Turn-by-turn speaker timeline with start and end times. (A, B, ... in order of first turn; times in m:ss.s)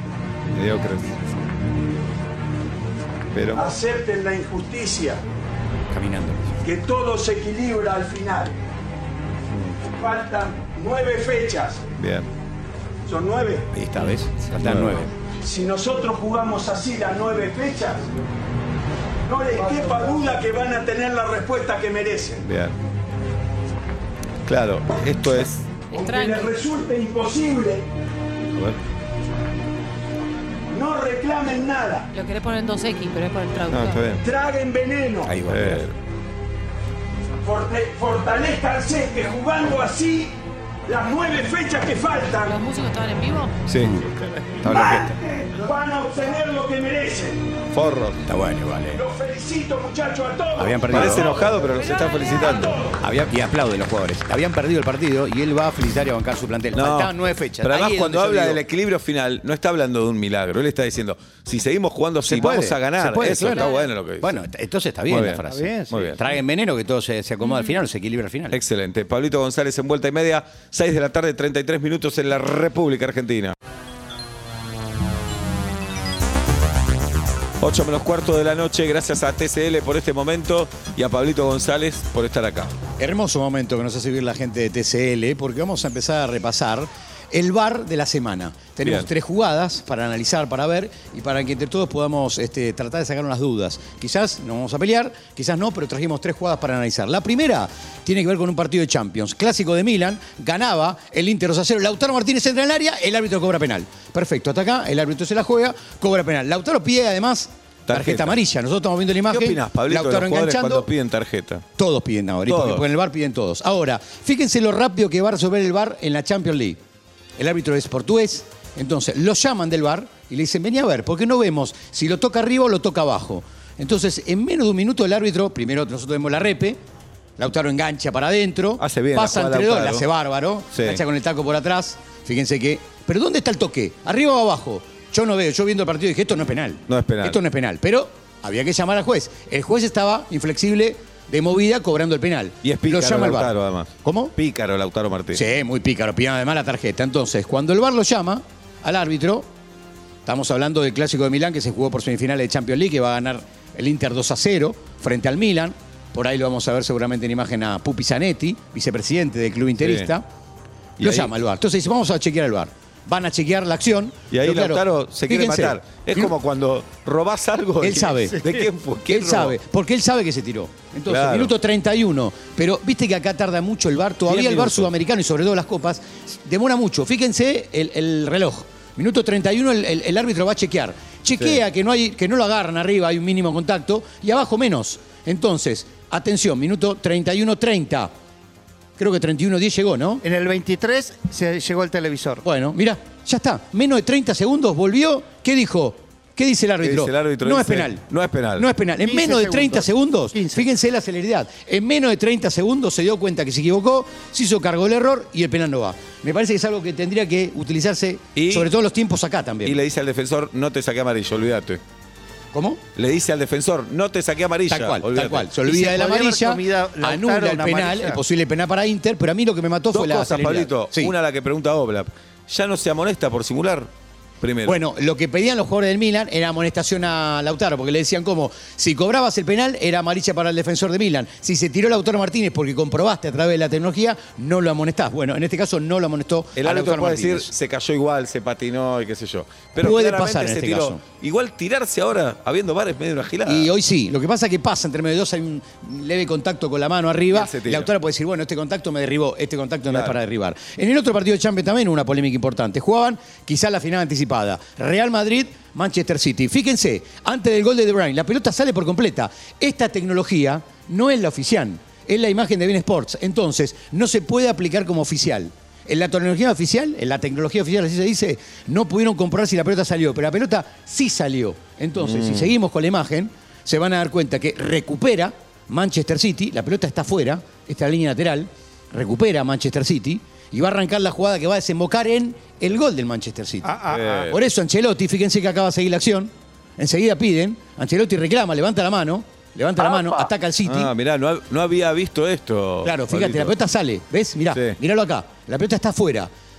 0:00.5-0:01.2 A
0:03.3-0:03.7 A
0:03.5-0:05.2 B
0:05.9-0:06.5 C
0:06.6-0:08.6 B
0:09.5-0:09.8 A
0:09.9-0:11.8 B
0:12.0-0:12.3 A
0:13.1-0:13.7 B
0:13.7-0:15.1 C
0:14.6-0:15.0 A
0:15.4-0:18.1 B
0:19.2-0:22.4 B
0:22.4-0:22.8 A
0:24.4-0:25.7 A
0:25.9-0:26.6 D
0:25.9-0:27.8 B
0:28.5-0:28.8 A
0:30.7-0:32.1 B
0:32.1-0:34.0 D
0:33.7-0:34.2 A
0:34.2-0:35.3 B
0:35.2-0:35.8 C
0:35.5-0:35.9 A
0:37.4-0:40.3 B
0:40.9-0:42.5 B
0:42.4-0:43.5 D
0:43.6-0:43.9 A
0:43.7-0:45.2 C
0:44.6-0:47.5 B
0:47.7-0:48.2 A
0:48.2-0:49.0 C
0:48.9-0:53.0 B
0:50.6-0:51.3 C
0:50.9-0:52.8 A
0:52.2-0:52.5 D
0:52.9-0:58.6 C
0:56.7-1:04.4 A
1:02.2-1:08.6 C
1:03.5-1:03.8 D
1:05.1-1:06.2 A
1:05.5-1:06.1 E
1:08.5-1:13.6 A
1:17.6-1:22.8 A
1:23.0-1:50.9 C
1:28.8-1:29.1 A
1:47.9-1:48.4 A
1:49.3-1:51.6 A
1:51.8-1:56.8 C
1:52.4-1:52.9 A
1:57.4-2:06.8 C
2:07.4-2:23.5 C
2:08.8-2:10.1 A
2:10.7-2:11.0 A
2:16.9-2:17.4 A
2:22.6-2:25.4 A
2:24.0-2:24.3 C
2:25.3-2:29.5 C
2:30.2-2:40.2 C
2:39.8-2:40.1 A
2:41.0-2:41.3 A
2:41.0-2:46.3 C
2:44.3-2:49.6 A
2:47.8-2:48.4 C
2:49.0-3:08.1 C
2:51.1-2:51.5 A
2:54.2-2:54.9 A
3:09.0-3:10.2 C
3:10.2-3:12.4 E
3:12.4-3:18.0 C
3:16.8-3:18.7 A
3:18.5-3:29.8 C
3:19.0-3:20.6 E
3:28.4-3:28.7 A
3:29.6-3:31.8 A
3:32.5-3:32.8 C
3:33.0-3:35.5 A
3:34.7-3:41.1 C
3:35.6-3:38.2 E
3:39.9-3:44.8 A
3:44.6-3:57.5 C
3:56.6-4:03.7 A
3:59.8-4:01.0 C
4:03.4-4:50.9 C
4:07.3-4:07.9 A
4:09.9-4:10.2 A
4:32.0-4:32.5 A
4:43.6-4:44.3 E
4:43.9-4:44.4 A
4:49.8-4:50.3 E
4:50.6-4:53.6 A
4:52.8-4:56.3 C
4:54.5-4:54.8 A